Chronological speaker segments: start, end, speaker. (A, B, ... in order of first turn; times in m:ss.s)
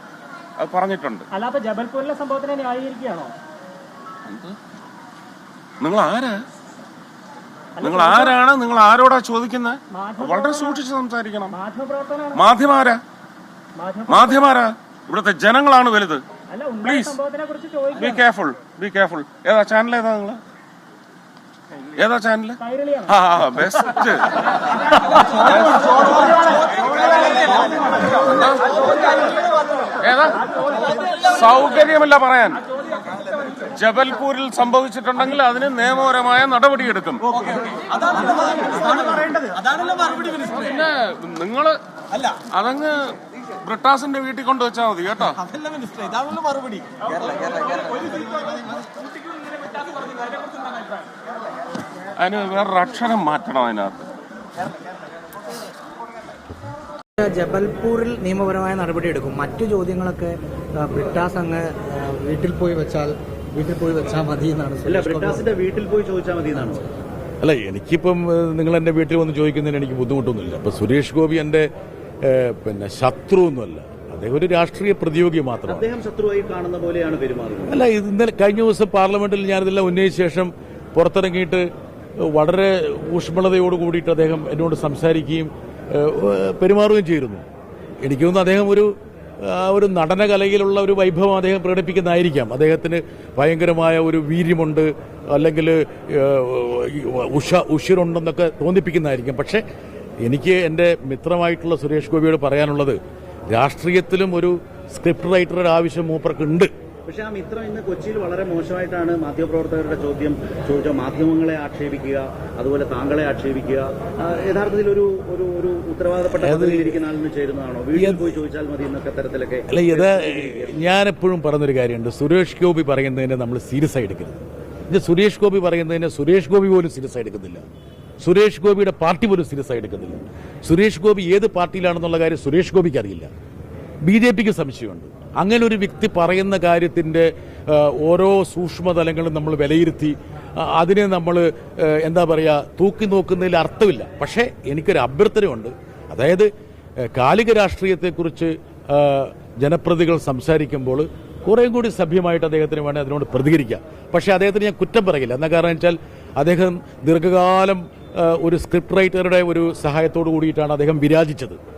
0:00.6-0:01.3 A
0:01.3-0:03.3 B
0:04.3-0:04.6 A
0:05.8-0:06.4 A
0:07.8-0:08.4 B
0:07.8-0:11.6 A
0:09.9-0:10.8 B
0:11.5-0:12.5 B
0:12.3-0:13.0 A
0:13.8-0:14.4 B
0:14.1-0:16.2 A
0:16.5-0:18.2 B
0:16.8-0:17.2 A
0:18.0-0:20.4 A
0:22.0-0:26.3 A
0:22.6-0:23.1 B
0:28.2-0:28.8 A
0:30.0-0:32.6 A
0:33.7-0:37.5 A
0:38.1-0:46.7 A
0:52.2-0:54.0 A
0:57.2-1:05.5 C
1:04.9-1:06.9 D
1:07.4-1:11.7 E
1:12.2-1:15.9 E
1:15.7-1:17.8 D
1:17.7-1:21.7 E
1:22.2-1:27.4 E
1:28.0-1:39.6 E
1:40.2-1:43.0 E
1:43.5-1:46.7 E
1:47.1-2:00.8 D
1:56.4-1:57.0 E
1:58.0-1:58.2 E
1:59.7-2:07.6 E
2:08.2-2:13.3 E
2:14.0-2:41.6 E